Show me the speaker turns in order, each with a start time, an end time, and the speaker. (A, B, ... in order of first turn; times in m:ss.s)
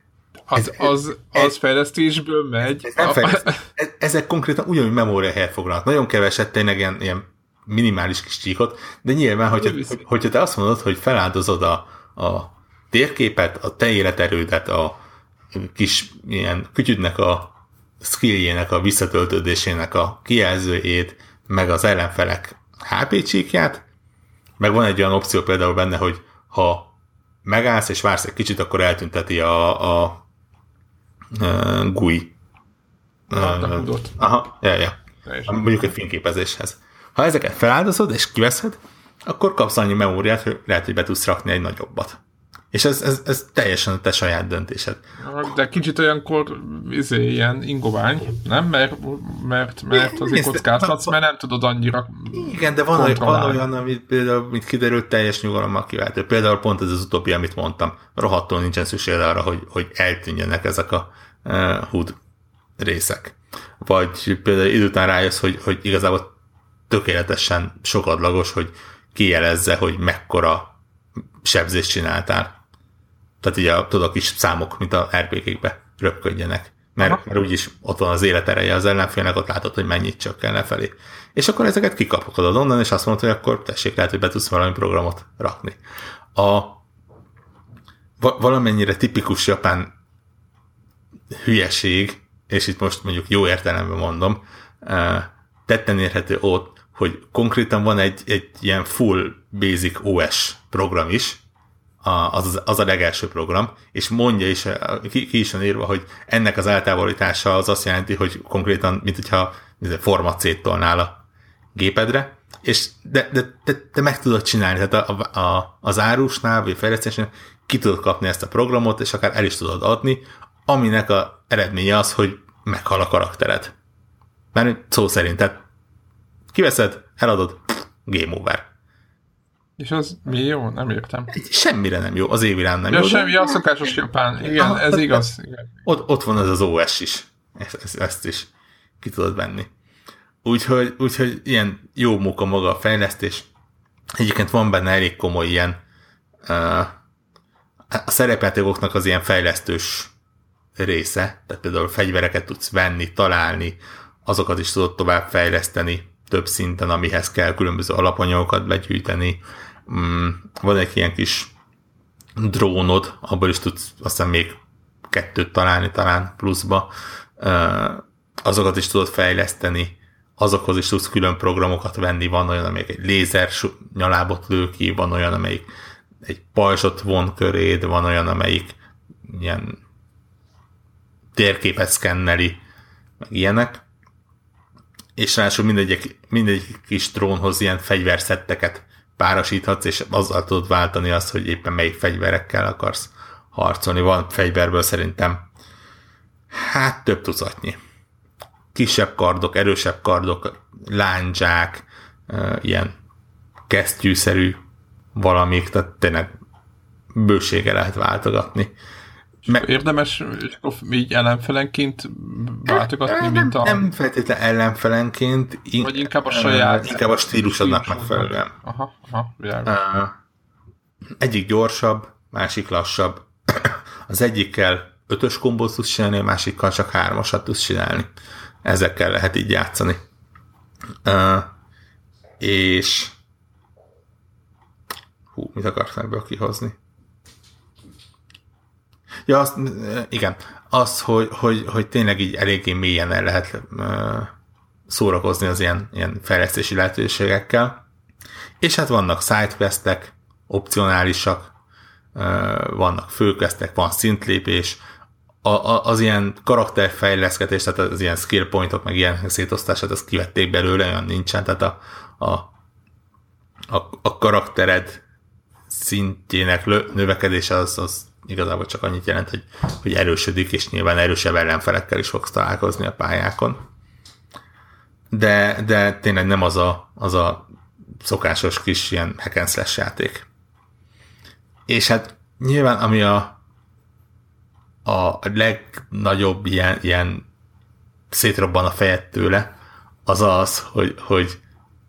0:00.5-0:03.6 A
0:00.6-0:01.5 B
0:02.8-0:15.0 B
0:09.5-0:10.0 A
0:15.5-0:23.8 B
0:24.6-0:30.2 B
0:31.3-0:32.4 B
0:33.3-0:42.2 B
0:33.4-0:34.2 A
0:35.2-0:35.6 A
0:42.7-0:45.0 B
0:45.2-0:53.6 A
0:49.9-0:51.2 B
0:52.3-1:02.2 B
1:02.8-1:06.3 B
1:06.9-1:10.7 B
1:11.4-1:12.6 B
1:13.4-1:25.8 B
1:26.4-1:26.8 B
1:28.2-1:29.9 B
1:31.3-1:41.4 B
1:42.0-1:51.2 B
1:51.8-2:03.7 B
2:04.5-2:05.6 B
2:06.5-2:08.7 B
2:09.8-2:11.3 A
2:11.3-2:13.6 B
2:12.9-2:15.7 A
2:14.5-2:15.2 B
2:15.9-2:19.7 B
2:20.4-2:23.5 B
2:24.2-2:25.8 B
2:26.5-2:26.9 B
2:27.9-2:30.1 B
2:30.8-2:41.5 B
2:42.4-2:55.7 B
2:56.2-2:59.8 B
3:01.4-3:02.6 B
3:03.2-3:03.8 B
3:05.2-3:15.5 B
3:16.5-3:17.8 B
3:18.7-3:22.9 B
3:23.7-3:24.6 B
3:25.2-3:26.3 B
3:27.1-3:28.7 B
3:29.5-3:33.9 A
3:32.7-3:38.5 B
3:35.8-3:39.8 A
3:39.6-3:40.2 B
3:41.2-3:48.1 B
3:48.6-3:50.0 B
3:51.0-3:51.5 B
3:52.4-3:53.2 B
3:55.3-3:56.8 B
3:59.3-4:04.3 B
4:04.9-4:07.8 B
4:08.6-4:11.5 B
4:12.2-4:14.8 B
4:15.4-4:22.5 B
4:23.7-4:25.0 B
4:25.7-4:33.6 B
4:35.1-4:37.5 B
4:38.0-4:40.3 B
4:41.7-4:43.4 B
4:44.8-4:47.2 B
4:48.1-4:49.5 B
4:50.1-4:51.4 B